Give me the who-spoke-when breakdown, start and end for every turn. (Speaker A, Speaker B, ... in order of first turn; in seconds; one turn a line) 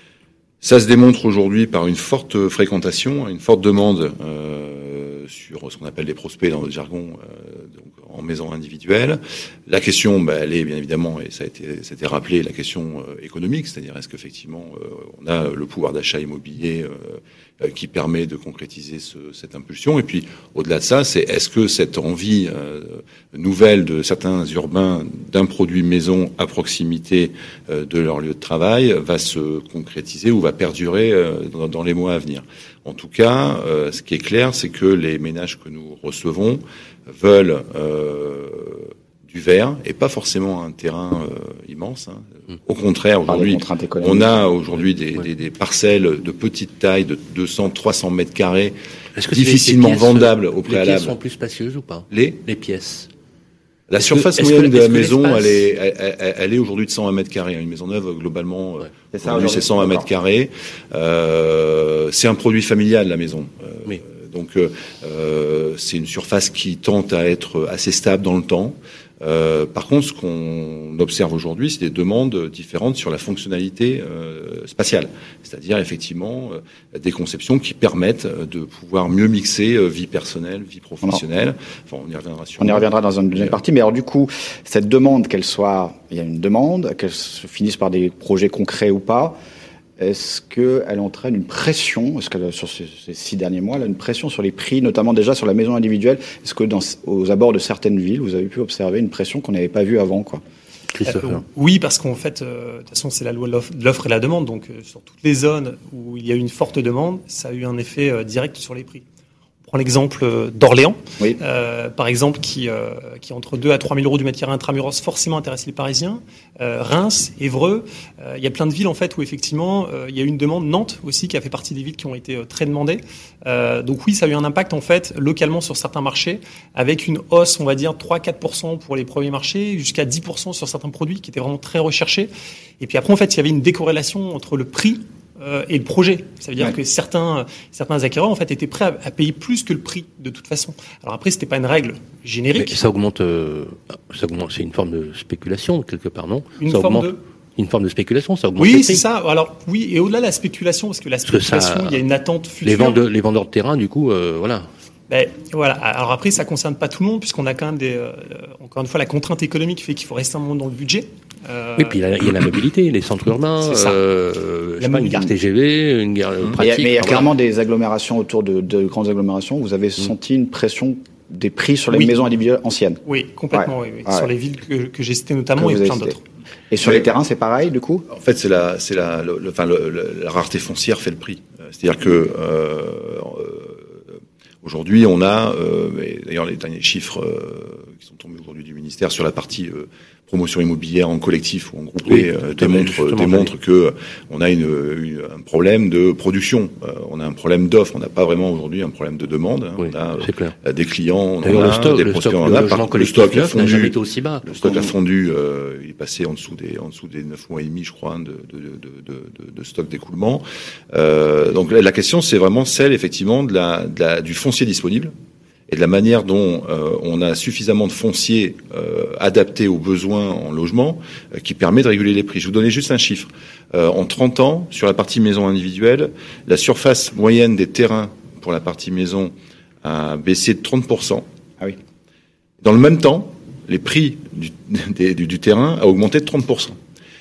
Speaker A: 0.6-48.8
Speaker B: 43.3-44.4
Speaker C: 49.2-53.1
Speaker A: 49.3-51.1
Speaker A: 52.1-52.4
Speaker A: 53.9-83.5
Speaker C: 54.0-55.7
Speaker B: 59.1-60.1
Speaker B: 82.6-89.4
Speaker B: 90.0-100.4
Speaker C: 100.9-101.5
Speaker D: 101.1-109.0
Speaker D: 109.7-142.8
Speaker C: 142.6-149.0
Speaker D: 146.6-147.2
Speaker D: 148.6-153.0
Speaker C: 151.3-152.0
Speaker C: 152.6-154.7
Speaker D: 155.1-162.1
Speaker C: 161.8-167.3
Speaker D: 163.6-164.0
Speaker D: 164.8-165.3
Speaker B: 166.6-174.3
Speaker D: 171.9-172.2
Speaker D: 173.1-176.2
Speaker B: 175.6-176.2
Speaker B: 176.7-178.1
Speaker A: 178.1-184.0
Speaker A: 184.6-215.1
Speaker C: 192.1-193.5
Speaker C: 199.8-200.6
Speaker C: 201.4-204.9
Speaker A: 215.7-231.3
Speaker A: 232.6-236.8